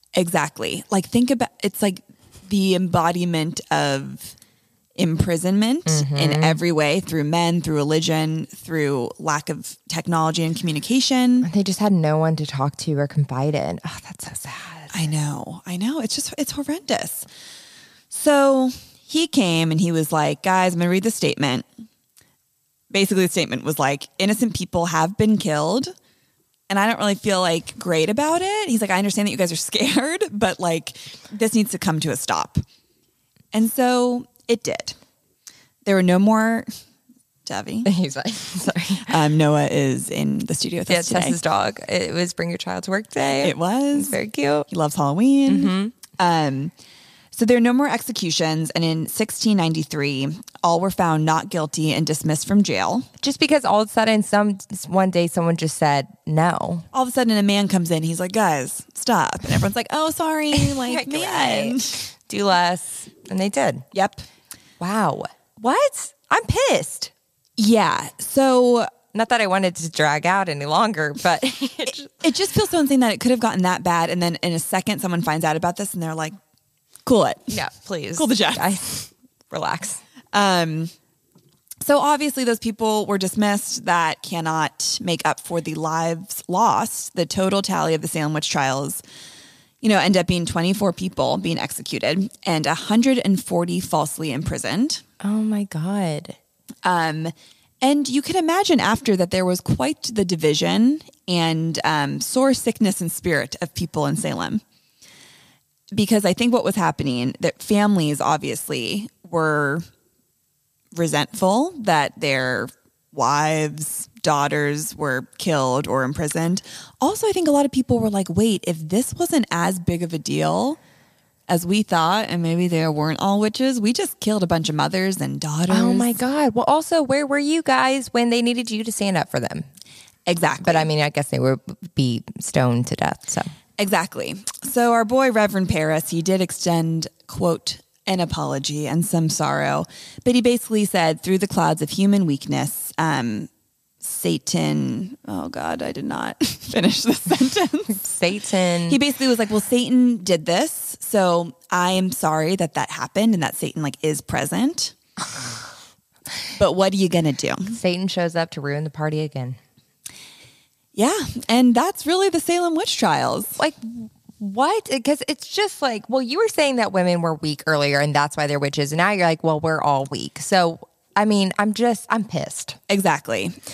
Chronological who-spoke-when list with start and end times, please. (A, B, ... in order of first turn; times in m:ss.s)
0:00.2-0:04.3 A
0:05.0-0:11.5 A
0:05.8-0:06.6 B
0:11.4-0:15.0 B
0:14.9-0:17.3 A
0:18.1-0:21.7 A
0:22.9-0:25.9 A
0:26.7-0:32.6 A
0:33.5-0:35.0 A
0:35.8-0:36.7 A
0:37.4-0:37.9 A
0:37.8-0:39.1 B
0:39.0-0:41.4 A
0:40.9-0:44.7 B
0:43.4-0:46.7 A
0:45.5-0:45.9 B
0:47.3-0:53.1 A
0:53.2-0:56.8 B
0:56.9-1:02.0 A
1:00.5-1:03.9 B
1:03.9-1:04.2 A
1:04.8-1:07.1 B
1:07.6-1:08.9 A
1:09.1-1:12.2 B
1:12.2-1:16.3 A
1:17.0-1:17.5 A
1:17.5-1:20.0 B
1:18.2-1:18.7 A
1:20.3-1:20.9 A
1:21.8-1:29.0 A
1:29.8-1:35.0 A
1:35.2-1:36.4 B
1:36.8-1:44.6 A
1:45.9-1:49.8 A
1:50.9-2:00.8 A
2:01.5-2:06.2 A
2:05.7-2:09.6 B
2:10.2-2:10.9 A
2:10.6-2:13.5 B
2:13.8-2:28.0 A
2:27.9-2:29.0 B
2:28.9-2:34.9 A
2:36.5-2:37.8 A
2:37.7-2:39.6 B
2:40.9-2:43.6 A
2:43.6-2:52.8 B
2:52.9-2:53.5 A